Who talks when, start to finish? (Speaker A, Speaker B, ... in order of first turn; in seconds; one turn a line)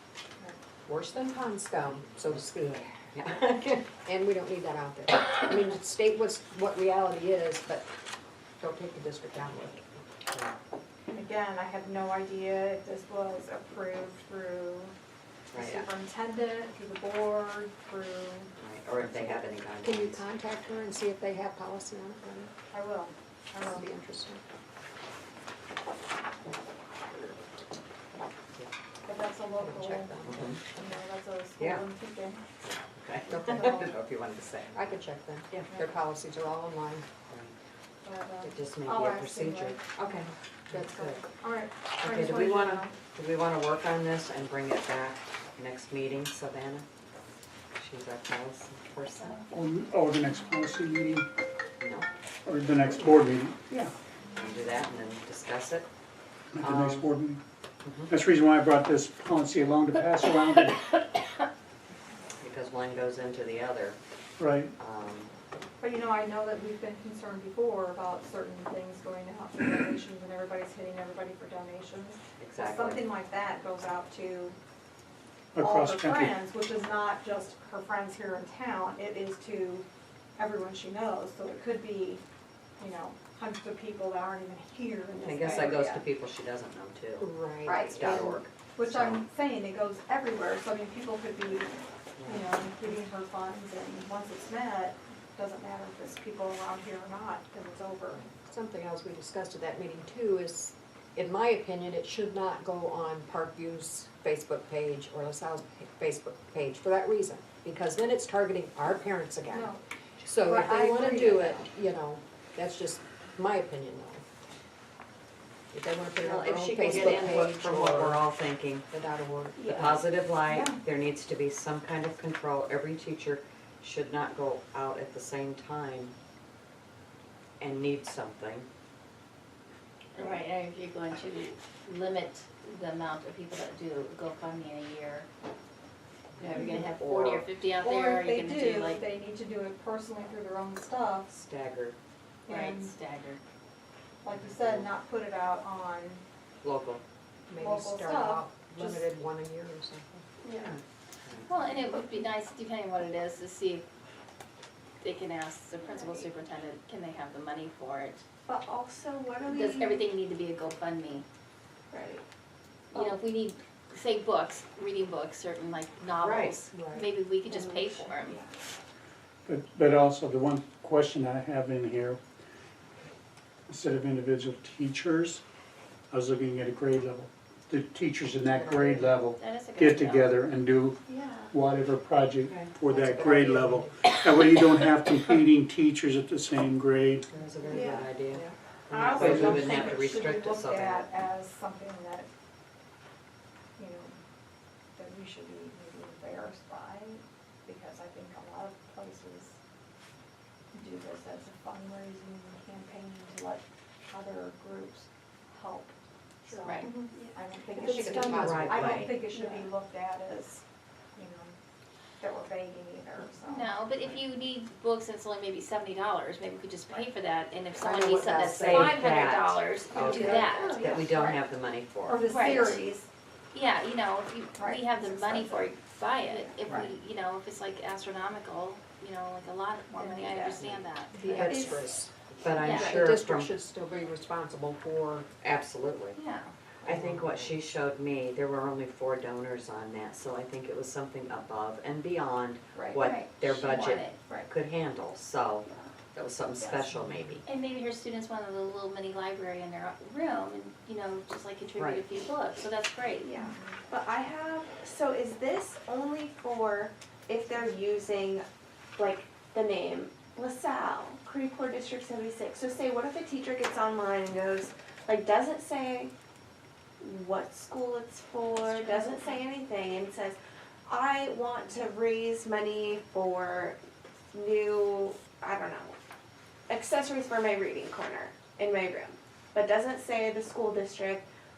Speaker A: 0.9-3.4
Speaker B: 3.1-3.8
Speaker A: 4.0-7.9
Speaker A: 8.6-9.8
Speaker C: 11.1-14.9
Speaker B: 15.5-15.9
Speaker C: 15.5-18.5
Speaker B: 18.6-20.3
Speaker A: 19.8-22.5
Speaker C: 22.7-23.9
Speaker A: 23.6-24.4
Speaker A: 27.1-27.4
Speaker C: 29.1-32.4
Speaker A: 29.6-30.5
Speaker B: 30.3-30.6
Speaker B: 31.6-31.9
Speaker B: 32.6-34.9
Speaker A: 33.3-33.9
Speaker C: 33.6-33.9
Speaker A: 34.7-37.1
Speaker B: 35.5-35.8
Speaker B: 37.3-37.6
Speaker C: 38.0-39.9
Speaker B: 38.4-41.3
Speaker C: 40.7-43.0
Speaker B: 42.0-46.9
Speaker B: 47.8-49.4
Speaker D: 49.5-51.3
Speaker B: 51.8-52.1
Speaker D: 52.5-53.9
Speaker B: 54.3-55.9
Speaker D: 56.6-57.4
Speaker B: 56.6-57.1
Speaker B: 57.8-58.2
Speaker D: 58.1-60.8
Speaker B: 62.4-64.0
Speaker D: 64.4-64.7
Speaker B: 64.8-65.3
Speaker C: 65.8-74.6
Speaker B: 72.4-73.1
Speaker D: 75.5-76.4
Speaker C: 75.6-79.9
Speaker C: 80.4-82.2
Speaker C: 82.8-86.0
Speaker B: 85.2-89.2
Speaker A: 87.2-88.4
Speaker C: 87.7-98.3
Speaker B: 92.2-92.5
Speaker A: 98.3-114.2
Speaker C: 109.5-109.8
Speaker C: 110.3-111.7
Speaker A: 115.7-118.2
Speaker B: 116.2-118.9
Speaker A: 118.9-120.0
Speaker E: 119.6-120.0
Speaker B: 119.7-126.2
Speaker C: 120.4-120.8
Speaker B: 127.6-128.7
Speaker F: 130.1-135.3
Speaker B: 136.4-137.5
Speaker F: 136.4-139.1
Speaker C: 136.5-136.9
Speaker C: 137.8-141.3
Speaker B: 141.3-142.0
Speaker C: 142.5-143.0
Speaker F: 142.5-143.4
Speaker C: 144.2-146.2
Speaker B: 144.3-144.9
Speaker B: 146.6-147.0
Speaker A: 147.5-150.2
Speaker C: 147.6-149.1
Speaker E: 150.4-150.7
Speaker B: 150.6-151.5
Speaker F: 151.5-153.9
Speaker F: 155.0-158.2
Speaker E: 155.8-156.3
Speaker E: 158.5-160.1
Speaker F: 159.4-161.2
Speaker E: 161.9-162.2
Speaker E: 162.9-163.2
Speaker F: 162.9-168.4
Speaker B: 166.2-166.6
Speaker A: 166.7-167.1
Speaker E: 167.5-167.8
Speaker C: 167.9-168.5
Speaker D: 169.5-172.2
Speaker D: 173.7-175.4
Speaker D: 176.1-181.0
Speaker A: 178.5-179.2
Speaker F: 179.4-180.3
Speaker E: 181.1-181.5
Speaker D: 181.5-187.2
Speaker B: 182.4-182.7
Speaker A: 182.9-184.2
Speaker B: 187.3-191.1
Speaker A: 187.6-188.5
Speaker E: 187.7-188.0
Speaker C: 188.9-192.3
Speaker D: 189.1-189.7
Speaker C: 193.8-194.2
Speaker C: 195.0-199.6
Speaker C: 200.7-210.6
Speaker F: 206.7-207.0
Speaker E: 207.1-208.0
Speaker A: 207.7-209.1
Speaker B: 208.3-209.1
Speaker E: 209.3-209.7
Speaker C: 211.2-211.6
Speaker C: 212.2-213.8
Speaker F: 213.4-220.9
Speaker A: 217.8-219.0
Speaker B: 218.4-222.2
Speaker C: 220.0-221.1
Speaker E: 220.5-221.4
Speaker C: 222.1-223.1
Speaker F: 222.2-222.9
Speaker F: 223.5-231.8
Speaker C: 224.6-226.9
Speaker C: 229.9-230.7
Speaker B: 230.6-230.8
Speaker C: 231.2-231.8
Speaker A: 231.3-235.3
Speaker B: 232.4-233.5
Speaker F: 232.6-233.1
Speaker B: 235.4-236.2
Speaker F: 236.2-236.5
Speaker B: 236.8-247.4
Speaker A: 236.9-237.5
Speaker C: 242.7-243.1
Speaker F: 243.0-244.2
Speaker E: 245.7-245.9
Speaker F: 247.4-253.3
Speaker B: 251.8-252.0
Speaker E: 253.2-258.4
Speaker C: 253.3-253.8
Speaker E: 259.0-266.1
Speaker E: 267.0-273.8
Speaker F: 268.6-269.4
Speaker E: 274.3-276.0
Speaker E: 276.7-281.3